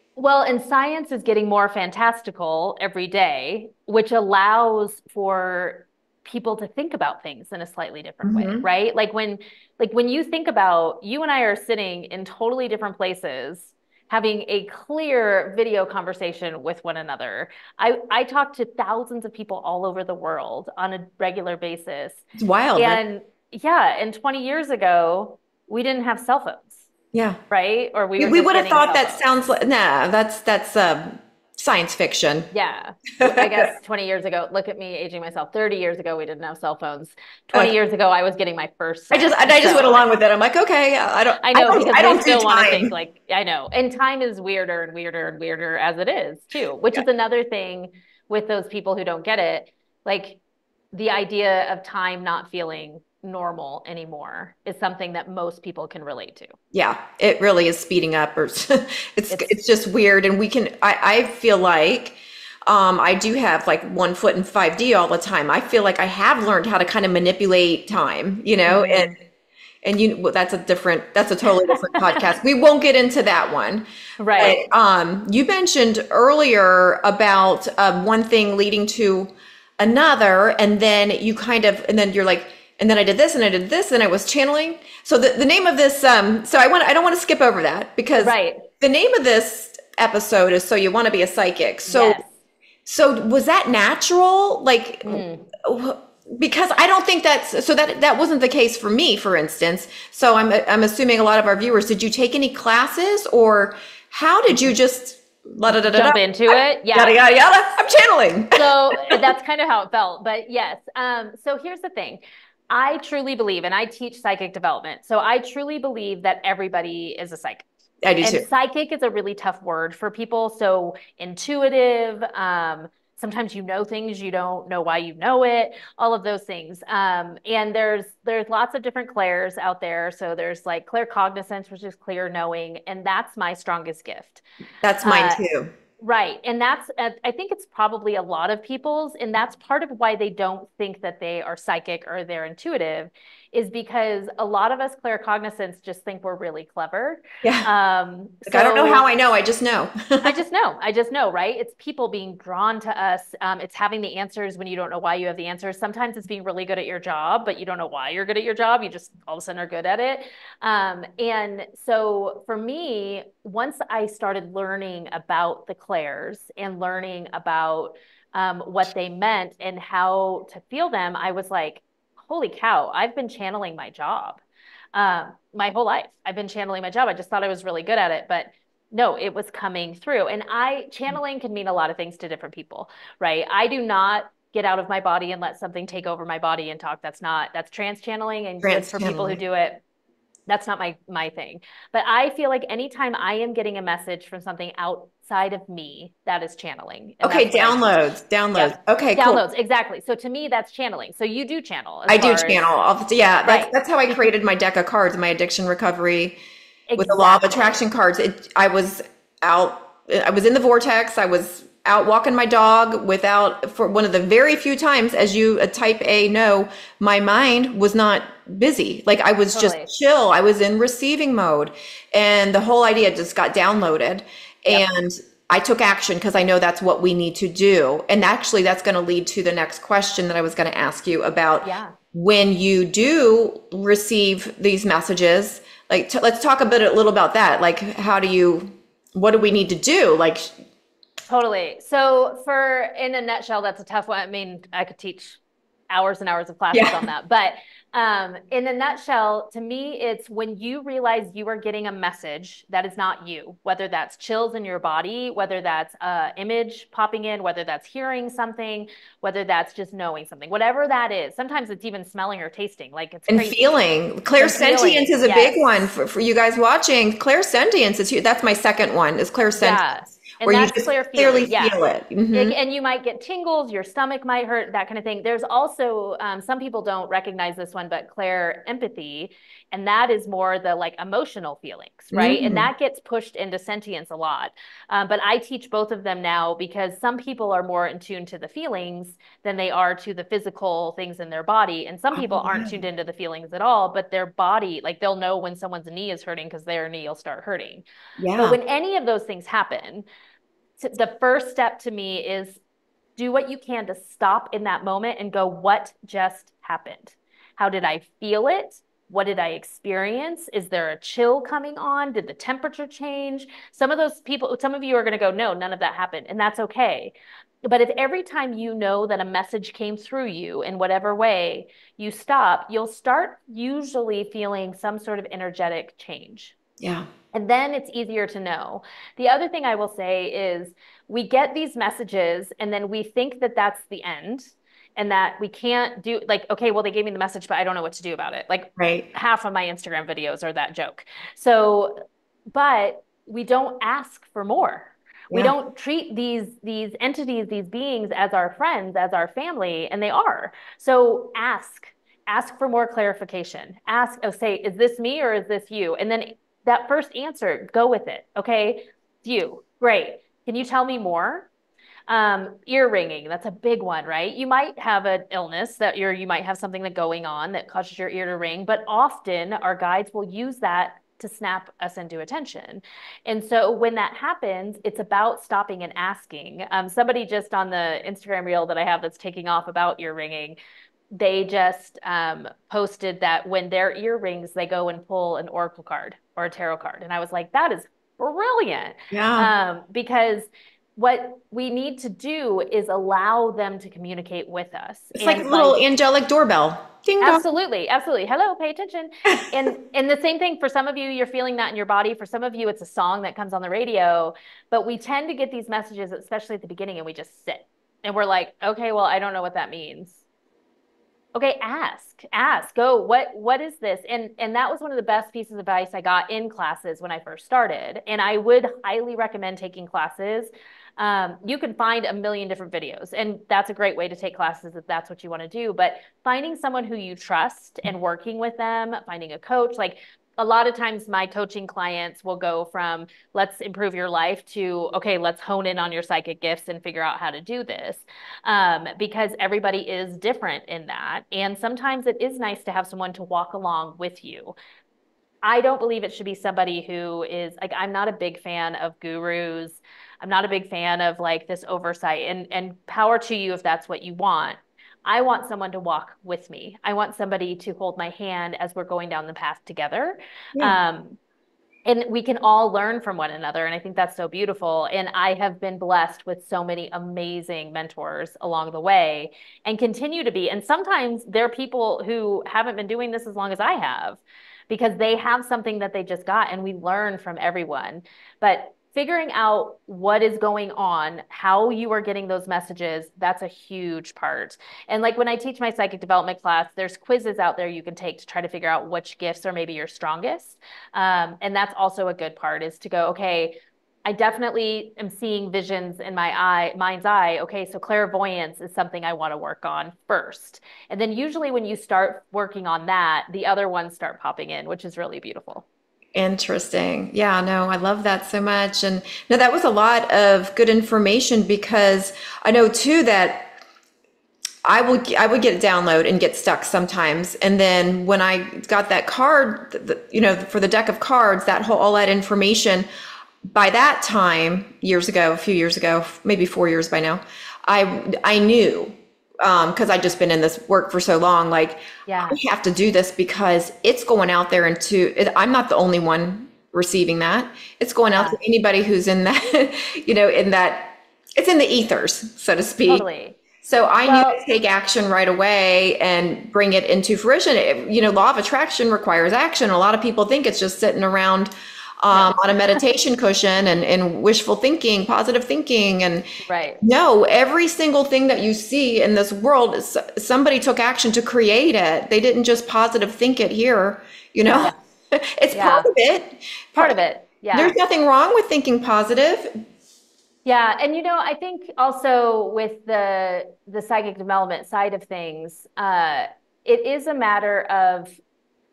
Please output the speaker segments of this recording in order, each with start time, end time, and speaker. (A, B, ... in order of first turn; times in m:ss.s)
0:00.2-0:26.9 A
0:08.2-0:08.6 B
0:22.4-0:23.0 B
0:27.1-0:27.4 B
0:27.5-0:29.2 A
0:28.2-0:32.5 B
0:32.5-0:40.0 A
0:33.2-0:33.7 B
0:39.1-0:42.9 B
0:41.4-0:50.4 A
0:50.9-0:56.5 A
0:56.7-1:09.1 B
1:08.6-1:09.1 A
1:09.8-1:13.8 B
1:11.7-1:12.2 A
1:14.2-1:14.6 A
1:14.4-1:32.2 B
1:28.2-1:28.6 A
1:31.9-1:32.3 A
1:32.8-1:49.2 B
1:35.0-1:35.4 A
1:45.9-1:47.2 A
1:48.6-1:57.7 A
1:58.0-1:58.5 B
1:58.2-2:14.4 A
2:14.8-2:15.7 B
2:15.0-2:15.4 A
2:16.0-2:29.0 A
2:27.4-2:27.7 B
2:28.5-2:30.3 B
2:30.2-2:54.4 A
2:54.9-3:09.8 A
3:08.6-3:09.4 B
3:10.5-3:17.9 A
3:17.2-3:19.4 B
3:18.5-3:22.7 A
3:22.1-3:26.4 B
3:23.4-3:24.2 A
3:26.9-3:27.8 A
3:27.0-4:00.5 B
3:39.5-3:39.9 A
3:51.6-3:51.9 A
4:01.3-4:23.8 A
4:06.7-4:07.0 B
4:23.3-4:29.8 B
4:24.4-4:25.9 A
4:29.6-4:31.8 A
4:30.4-4:32.5 B
4:32.3-4:57.8 A
4:42.1-4:42.7 B
4:52.1-4:52.8 B
4:58.2-4:58.6 B
4:58.4-5:00.0 A
5:00.8-5:02.6 A
5:03.2-5:26.5 A
5:26.8-5:27.1 B
5:27.3-6:01.5 A
5:38.8-5:39.1 B
6:02.1-6:20.6 A
6:21.1-6:36.0 A
6:29.1-6:29.5 B
6:35.1-6:37.4 B
6:37.2-6:50.2 A
6:51.3-7:24.5 A
7:25.4-7:41.2 A
7:41.8-8:25.6 A
8:26.1-8:33.6 B
8:34.6-8:42.9 B
8:43.4-9:03.0 B
8:52.0-8:52.4 A
8:58.1-8:58.4 A
9:02.8-9:03.4 A
9:03.6-9:11.5 B
9:04.0-9:04.4 A
9:12.0-9:16.3 B
9:12.1-9:12.4 A
9:16.4-9:16.8 A
9:16.8-9:27.0 B
9:24.5-9:24.7 A
9:25.5-9:25.9 A
9:26.8-9:27.8 A
9:27.5-9:29.5 B
9:30.4-9:38.2 A